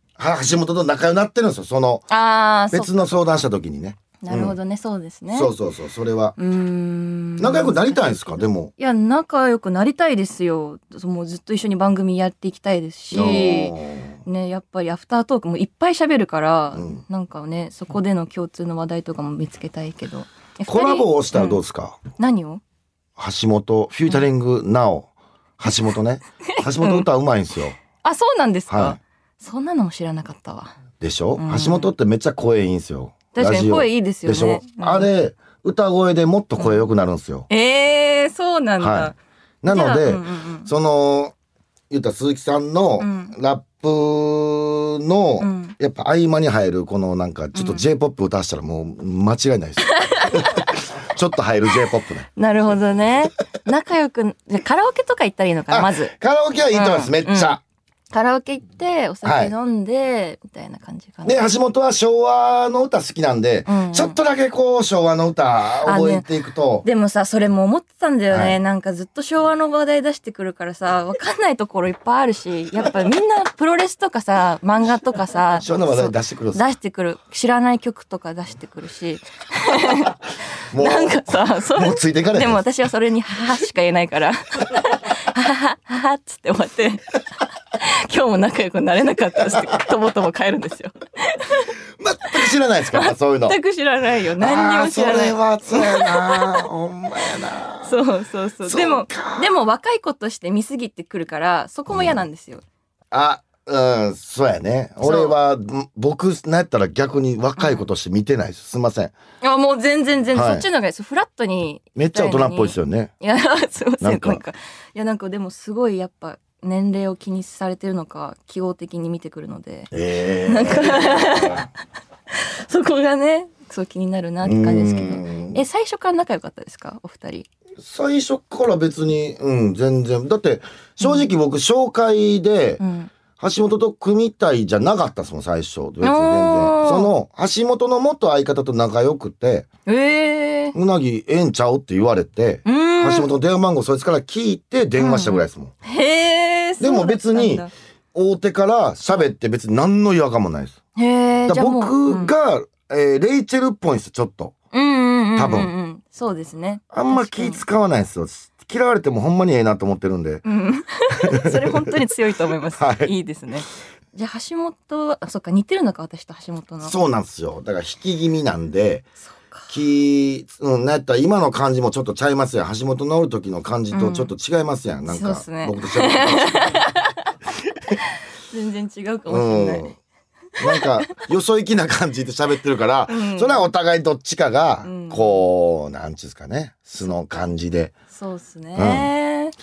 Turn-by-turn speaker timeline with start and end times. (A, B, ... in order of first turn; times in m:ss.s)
0:00.2-0:02.1 A
0:02.1-0:03.0 B
0:02.7-0:04.6 A
0:04.2-0:05.5 B
0:05.3-0:06.4 A
0:06.4-0:13.7 B
0:07.4-0:08.7 A
0:13.1-0:14.2 A
0:14.2-0:21.6 B
0:16.7-0:17.0 A
0:20.7-0:22.0 A
0:22.2-0:22.6 B
0:23.2-0:27.8 A
0:26.6-0:27.1 B
0:27.9-0:30.8 B
0:28.7-0:29.0 A
0:31.0-0:37.5 A
0:31.4-0:31.9 B
0:33.3-0:35.1 B
0:36.6-0:36.9 B
0:37.5-0:39.2 B
0:38.8-0:39.1 A
0:39.6-0:41.3 A
0:39.7-0:40.7 B
0:41.9-0:52.3 A
0:43.0-0:43.3 B
0:45.4-0:45.7 B
0:47.6-0:47.8 B
0:50.0-0:50.6 B
0:52.4-0:56.1 B
0:55.7-0:57.6 A
0:56.7-0:57.6 B
0:58.1-1:01.5 B
0:59.2-0:59.5 A
1:01.2-1:06.9 A
1:03.7-1:04.2 B
1:05.8-1:06.3 B
1:06.8-1:20.2 B
1:08.3-1:08.6 A
1:15.6-1:16.6 A
1:20.7-1:22.6 A
1:20.8-1:27.0 B
1:27.7-1:31.7 B
1:32.0-1:33.6 A
1:32.4-1:36.6 B
1:34.4-1:38.0 A
1:37.8-1:42.6 B
1:38.6-1:39.5 A
1:41.9-1:42.2 A
1:43.1-1:49.2 A
1:45.0-1:45.4 B
1:47.6-1:47.8 B
1:49.4-1:59.9 B
1:50.3-1:50.6 A
1:52.0-1:53.1 A
1:54.0-1:54.4 A
1:59.9-2:01.7 A
2:00.5-2:01.7 B
2:02.4-2:07.5 B
2:04.4-2:05.6 A
2:07.8-2:12.8 A
2:11.0-2:11.3 B
2:12.8-2:13.1 B
2:13.4-2:19.7 A
2:16.0-2:17.1 B
2:19.9-2:20.8 B
2:20.7-2:25.7 A
2:22.6-2:23.3 B
2:25.0-2:27.7 B
2:26.8-2:30.8 A
2:31.0-2:32.3 B
2:31.5-2:34.6 A
2:34.7-2:37.6 B
2:35.4-2:35.7 A
2:36.9-2:40.4 A
2:40.4-2:46.9 B
2:41.2-2:41.9 A
2:42.8-2:43.1 A
2:46.8-2:49.1 A
2:49.2-2:49.7 B
2:49.7-2:56.8 A
2:53.9-2:54.3 B
2:55.1-2:57.3 B
2:58.5-2:59.9 B
2:59.3-2:59.9 A
3:00.6-3:07.9 A
3:03.1-3:03.6 B
3:04.8-3:05.4 B
3:08.1-3:09.6 B
3:08.8-3:09.1 A